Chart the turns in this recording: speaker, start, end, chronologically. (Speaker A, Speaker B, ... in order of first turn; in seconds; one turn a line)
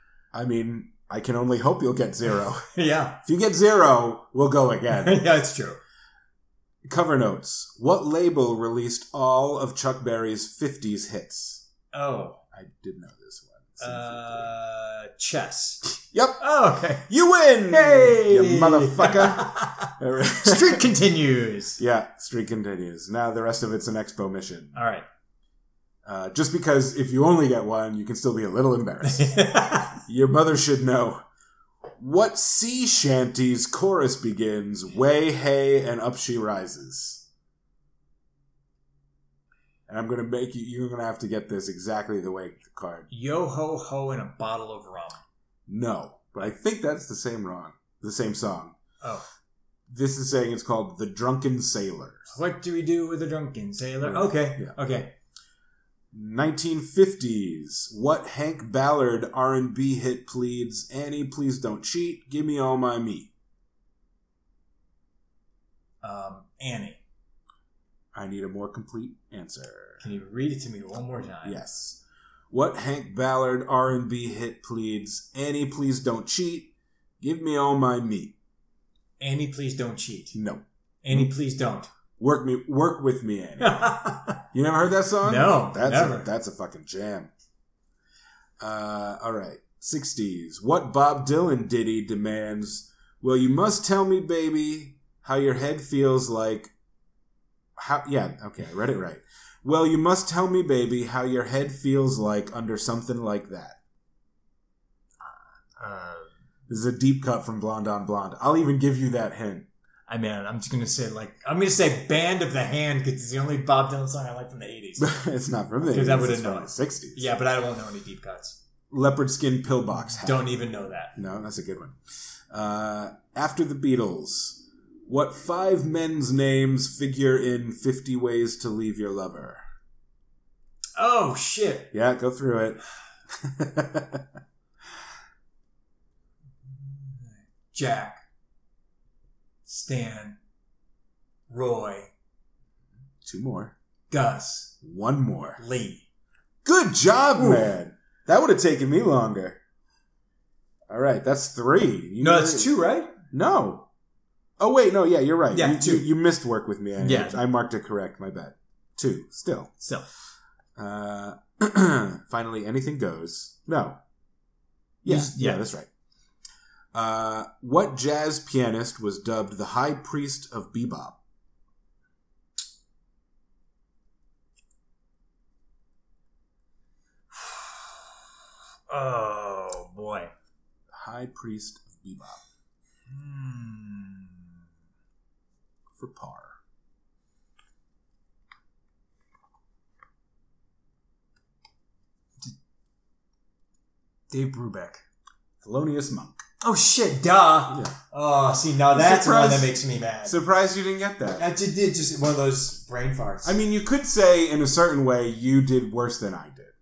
Speaker A: 0.3-2.7
Speaker B: 2.7-3.2
Speaker A: 3.2-5.3
Speaker B: 4.9-5.8
Speaker A: 6.8-11.7
Speaker B: 11.9-12.4
Speaker A: 12.5-14.5
Speaker B: 13.8-17.1
Speaker A: 16.1-16.4
Speaker A: 17.1-20.9
Speaker B: 17.7-21.8
Speaker A: 21.8-24.8
Speaker B: 24.7-25.0
Speaker A: 26.0-31.2
Speaker B: 29.0-30.0
Speaker A: 32.0-37.2
Speaker A: 39.9-43.1
Speaker B: 43.1-45.2
Speaker A: 45.7-48.8
Speaker A: 49.9-52.4
Speaker B: 52.3-55.1
Speaker A: 54.0-54.7
Speaker A: 56.1-63.3
Speaker B: 66.0-67.0
Speaker A: 68.1-70.0
Speaker B: 70.0-71.6
Speaker A: 71.4-78.3
Speaker B: 79.2-80.3
Speaker A: 80.3-81.3
Speaker B: 81.0-81.9
Speaker A: 82.2-83.8
Speaker B: 83.6-84.4
Speaker A: 84.5-87.3
Speaker B: 85.2-86.3
Speaker A: 88.6-96.7
Speaker A: 97.8-103.8
Speaker B: 105.2-106.3
Speaker A: 106.7-109.7
Speaker B: 110.1-115.2
Speaker A: 115.0-117.3
Speaker B: 115.8-118.6
Speaker A: 118.9-120.6
Speaker B: 120.2-121.1
Speaker A: 121.2-122.0
Speaker A: 122.5-129.6
Speaker B: 131.0-131.9
Speaker A: 131.9-132.8
Speaker A: 133.3-134.2
Speaker B: 136.7-138.2
Speaker B: 139.6-140.4
Speaker B: 141.5-142.1
Speaker A: 143.2-143.7
Speaker B: 144.1-144.7
Speaker A: 144.8-145.6
Speaker B: 145.6-146.0
Speaker A: 146.6-149.6
Speaker B: 147.3-147.7
Speaker A: 150.9-152.7
Speaker B: 152.2-153.1
Speaker A: 153.3-153.9
Speaker A: 154.6-159.7
Speaker B: 155.5-156.1
Speaker B: 157.0-157.4
Speaker B: 159.8-160.1
Speaker A: 160.8-164.0
Speaker A: 165.0-165.9
Speaker B: 165.1-165.6
Speaker A: 166.9-171.2
Speaker B: 177.3-178.2
Speaker B: 178.9-180.3
Speaker A: 180.9-182.4
Speaker B: 183.1-184.5
Speaker A: 185.9-186.6
Speaker B: 194.3-195.0
Speaker A: 195.6-196.4
Speaker B: 196.6-200.3
Speaker A: 197.7-197.9
Speaker A: 198.9-201.4
Speaker B: 201.3-203.6
Speaker A: 203.4-206.7